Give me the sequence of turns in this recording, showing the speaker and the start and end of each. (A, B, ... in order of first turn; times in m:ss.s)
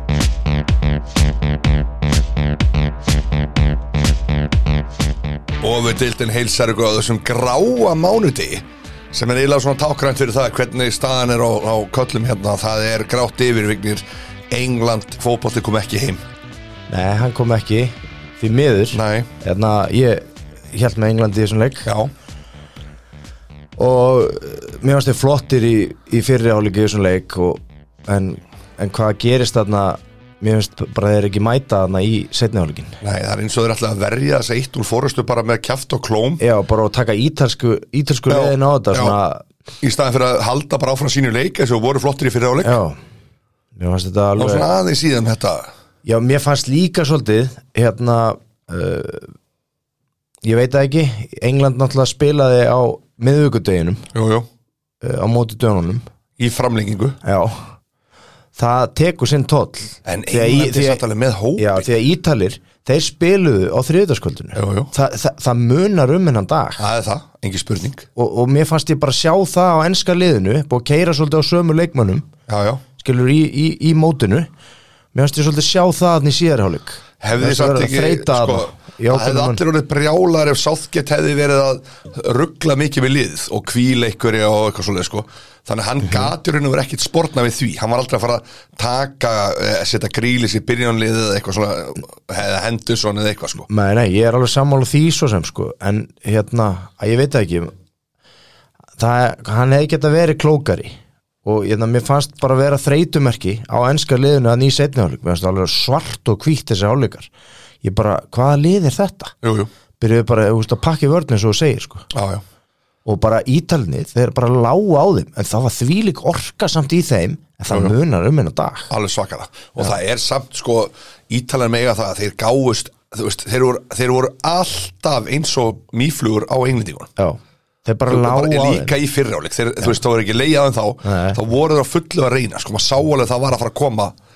0:05.6-0:16.2 A
0:16.9-0:21.9 B
0:18.9-0:19.3 A
0:21.8-0:22.1 A
0:23.8-0:33.0 B
0:33.0-0:36.4 A
0:36.4-0:39.4 B
0:38.3-0:39.2 A
0:39.8-0:42.8 A
0:42.6-0:43.0 B
0:43.8-0:44.7 B
0:44.4-0:45.7 A
0:46.0-0:49.3 B
0:50.4-0:54.0 B
0:54.1-0:54.5 A
0:55.0-0:56.0 B
0:56.4-0:57.2 A
0:57.2-0:57.6 B
0:58.6-1:01.0 B
1:00.0-1:01.8 A
1:01.6-1:06.8 B
1:04.5-1:04.9 A
1:06.8-1:08.1 A
1:08.2-1:12.3 B
1:12.5-1:12.8 A
1:13.0-1:14.5 B
1:15.1-1:19.6 B
1:17.2-1:33.7 A
1:33.7-1:37.7 B
1:39.0-1:47.3 B
1:47.8-1:49.3 B
1:49.4-1:49.7 A
1:50.0-1:52.1 B
1:52.1-1:52.4 A
1:53.0-1:58.9 B
1:58.9-2:07.1 A
2:07.2-2:08.9 B
2:08.1-2:14.1 A
2:11.0-2:11.4 B